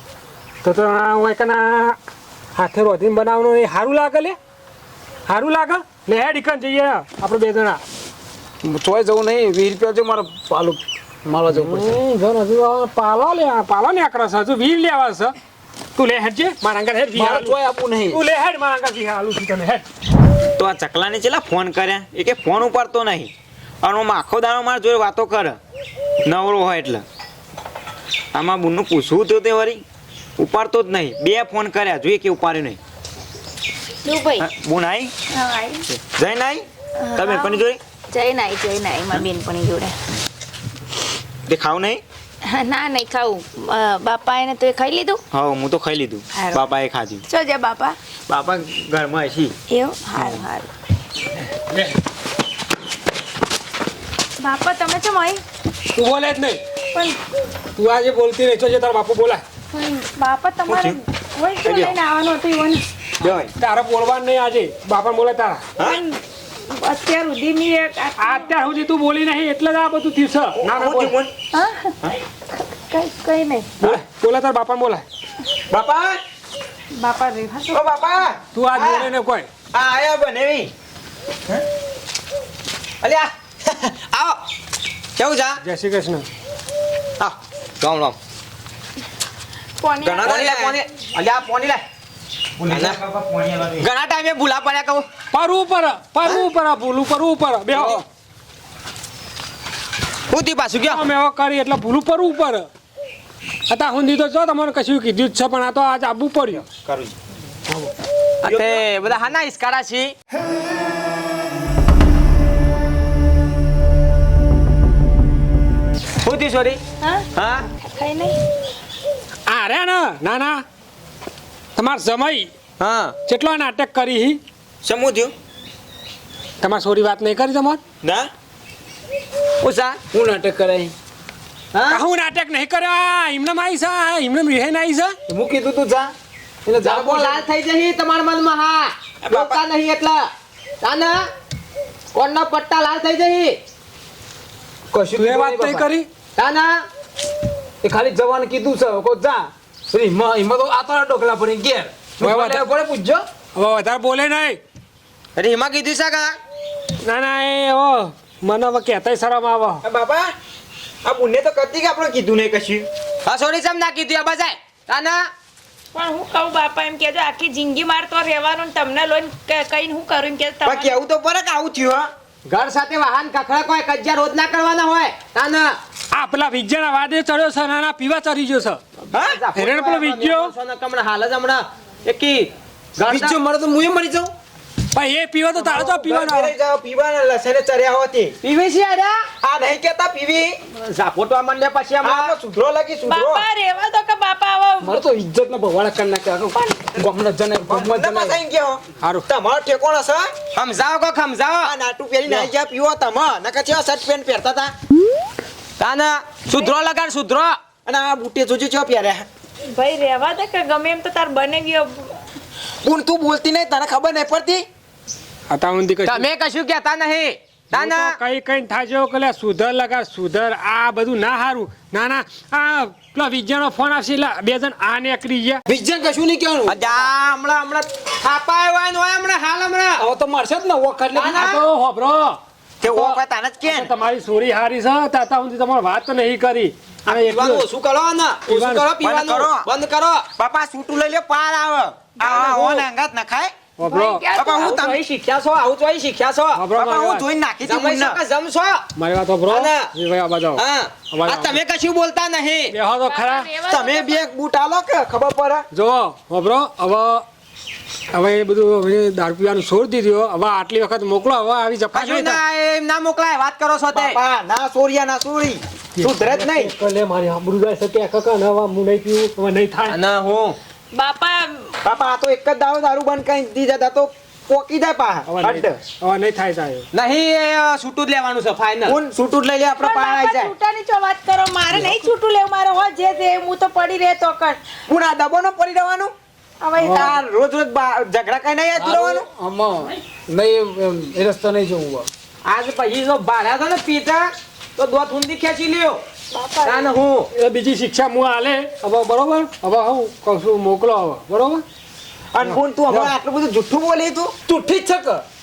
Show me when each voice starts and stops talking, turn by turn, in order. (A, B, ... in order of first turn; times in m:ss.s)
0:00.6-0:02.0 A
0:02.6-0:04.4 A
0:05.3-0:07.8 A
0:08.6-0:12.0 B
0:11.5-0:15.4 A
0:16.0-0:19.9 A
0:17.1-0:18.2 B
0:20.6-0:23.3 C
0:23.8-0:25.6 C
0:26.2-0:27.0 C
0:28.3-0:29.8 C
0:30.4-0:32.8 C
0:34.0-0:34.5 D
0:34.4-0:35.1 C
0:35.3-0:35.9 D
0:36.0-0:37.8 C
0:37.0-0:40.0 D
0:41.5-0:42.0 C
0:42.4-0:45.2 D
0:45.3-0:47.2 C
0:46.3-0:46.6 D
0:47.3-0:48.0 D
0:48.3-0:49.6 C
0:49.7-0:50.7 D
0:54.4-0:55.4 D
0:55.9-0:56.6 A
0:57.8-0:59.4 A
0:59.7-1:02.8 D
1:00.7-1:01.0 C
1:01.6-1:02.0 C
1:03.2-1:03.5 C
1:03.6-1:05.7 A
1:05.8-1:08.5 D
1:08.2-1:11.2 A
1:10.6-1:11.3 C
1:11.5-1:12.0 D
1:12.9-1:13.8 D
1:13.8-1:15.0 A
1:15.7-1:16.2 C
1:17.0-1:17.8 D
1:17.7-1:19.1 C
1:18.5-1:19.5 A
1:19.7-1:20.7 C
1:23.0-1:24.4 E
1:25.2-1:25.6 E
1:25.6-1:26.3 A
1:27.2-1:28.2 E
1:29.8-1:30.3 D
1:30.0-1:30.8 C
1:30.2-1:31.8 E
1:32.6-1:33.9 C
1:32.7-1:33.0 E
1:33.8-1:35.1 E
1:35.3-1:38.0 A
1:40.3-1:41.0 E
1:40.8-1:42.7 A
1:43.7-1:46.7 A
1:46.7-1:47.2 C
1:48.4-1:50.1 E
1:48.5-1:48.8 C
1:56.2-1:56.8 E
1:57.0-1:58.4 D
1:57.4-1:57.7 E
1:59.5-2:00.6 A
2:01.8-2:02.5 A
2:02.8-2:03.2 E
2:03.3-2:04.4 A
2:04.8-2:05.3 C
2:06.6-2:07.8 A
2:08.0-2:08.3 C
2:09.6-2:10.0 E
2:10.1-2:10.9 B
2:11.7-2:12.0 E
2:11.9-2:15.2 A
2:15.3-2:16.1 B
2:16.7-2:17.4 B
2:16.8-2:20.3 E
2:19.2-2:19.6 C
2:20.8-2:21.3 E
2:22.2-2:23.6 E
2:24.9-2:25.9 B
2:25.2-2:26.1 A
2:26.4-2:26.8 E
2:27.8-2:33.2 B
2:32.2-2:32.6 A
2:33.6-2:34.6 A
2:35.4-2:36.4 E
2:37.0-2:39.8 A
2:39.8-2:40.3 C
2:41.0-2:42.9 C
2:43.3-2:45.2 E
2:45.9-2:51.0 D
2:50.6-2:52.1 C
2:52.5-2:55.8 E
2:56.1-2:58.8 A
2:59.1-3:03.4 E
2:59.1-2:59.4 C
2:59.6-3:00.5 A
3:03.0-3:04.3 B
3:04.9-3:06.5 A
3:05.6-3:08.4 C
3:08.4-3:09.3 E
3:09.4-3:10.6 C
3:10.7-3:12.4 E
3:12.0-3:13.5 C
3:13.1-3:15.0 D
3:14.8-3:18.4 B
3:16.6-3:17.0 D
3:17.6-3:20.3 C
3:19.0-3:19.3 A
3:20.5-3:21.7 E
3:21.6-3:24.7 C
3:25.8-3:27.6 E
3:27.9-3:29.3 C
3:29.7-3:32.2 D
3:32.8-3:34.7 C
3:35.5-3:36.3 A
3:36.1-3:38.2 E
3:37.7-3:45.6 A
3:45.7-3:47.1 B
3:46.7-3:50.0 E
3:50.0-3:51.6 B
3:51.2-3:51.6 E
3:51.2-3:57.7 A
3:52.8-3:53.9 C
3:57.1-4:00.3 E
3:58.5-3:58.9 A
3:59.0-3:59.7 C
4:00.4-4:03.6 C
4:02.2-4:02.9 E
4:03.8-4:04.2 A
4:03.9-4:04.6 D
4:04.4-4:05.0 C
4:04.5-4:06.6 E
4:06.6-4:07.3 A
4:06.7-4:08.2 C
4:07.6-4:08.9 E
4:09.0-4:11.6 A
4:09.5-4:09.9 E
4:10.6-4:12.8 E
4:12.7-4:13.5 A
4:13.1-4:14.3 D
4:13.6-4:15.6 C
4:15.7-4:17.3 A
4:18.1-4:22.4 A
4:21.9-4:24.2 E
4:23.9-4:26.7 C
4:26.0-4:30.0 A
4:29.9-4:30.6 E
4:30.9-4:31.8 D
4:31.8-4:35.7 C
4:35.3-4:36.9 A
4:36.9-4:39.0 E
4:38.9-4:40.5 C
4:39.8-4:44.6 D
4:44.9-4:46.1 C
4:46.6-4:47.2 D
4:46.8-4:49.3 C
4:48.8-4:52.1 B
4:52.5-4:56.0 E
4:56.3-4:57.0 D
4:56.6-4:57.3 E
4:57.3-5:01.6 A
5:02.3-5:04.7 C
5:02.4-5:03.1 A